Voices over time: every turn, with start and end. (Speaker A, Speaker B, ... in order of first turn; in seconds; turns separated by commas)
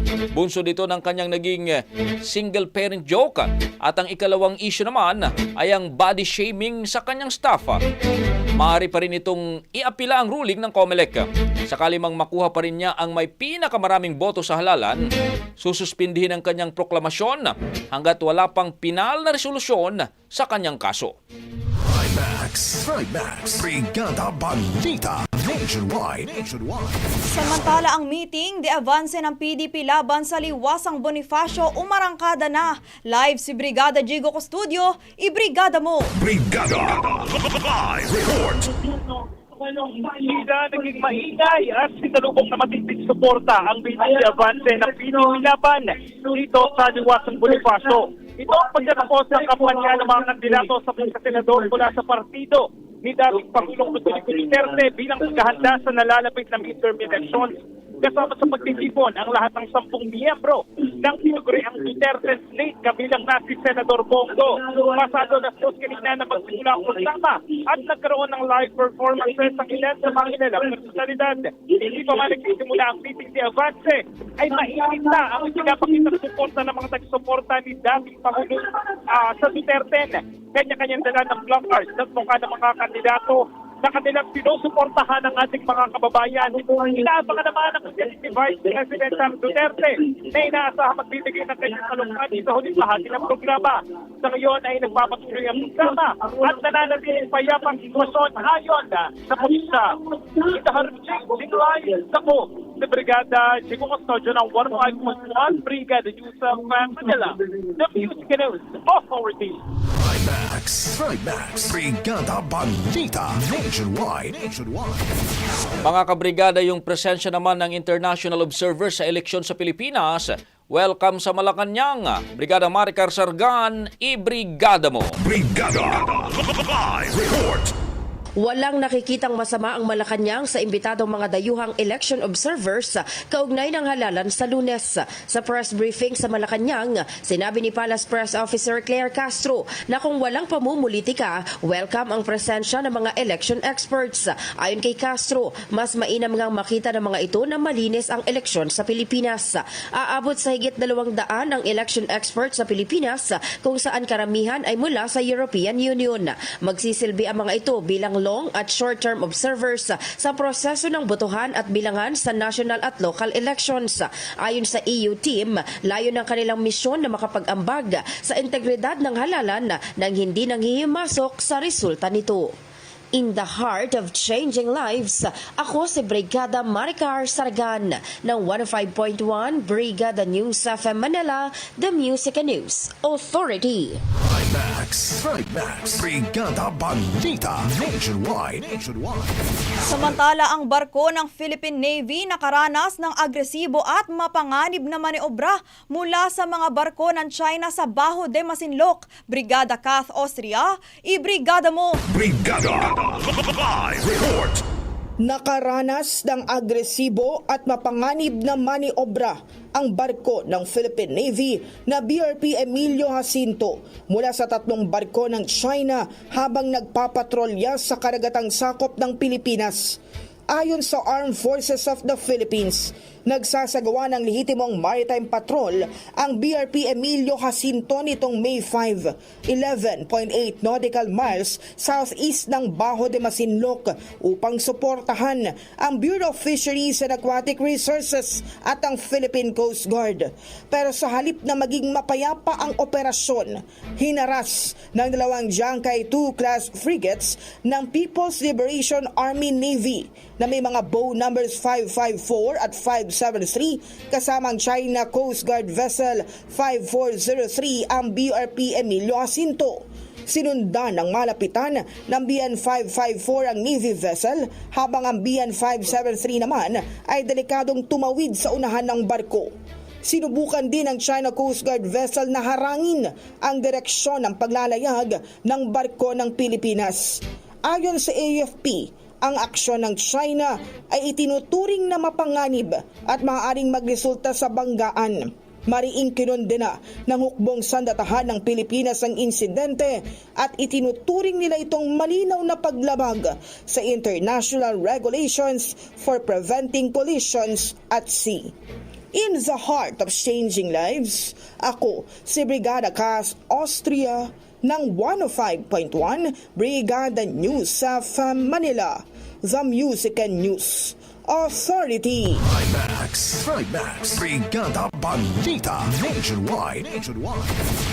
Speaker A: 0.3-7.8, Speaker A: 8.6-15.0, Speaker A: 15.6-21.1, Speaker B: 21.8-27.0, Speaker C: 27.3-36.1, Speaker B: 36.2-38.7, Speaker D: 39.6-109.6, Speaker B: 109.9-115.2, Speaker A: 115.8-125.2, Speaker B: 125.2-127.7, Speaker E: 128.4-172.5, Speaker E: 173.2-184.0, Speaker B: 184.2-189.4, Speaker C: 189.8-202.0, Speaker B: 202.1-204.6, Speaker F: 205.2-220.0, Speaker F: 220.5-269.5, Speaker F: 270.0-298.5, Speaker F: 299.1-312.4, Speaker B: 312.4-317.6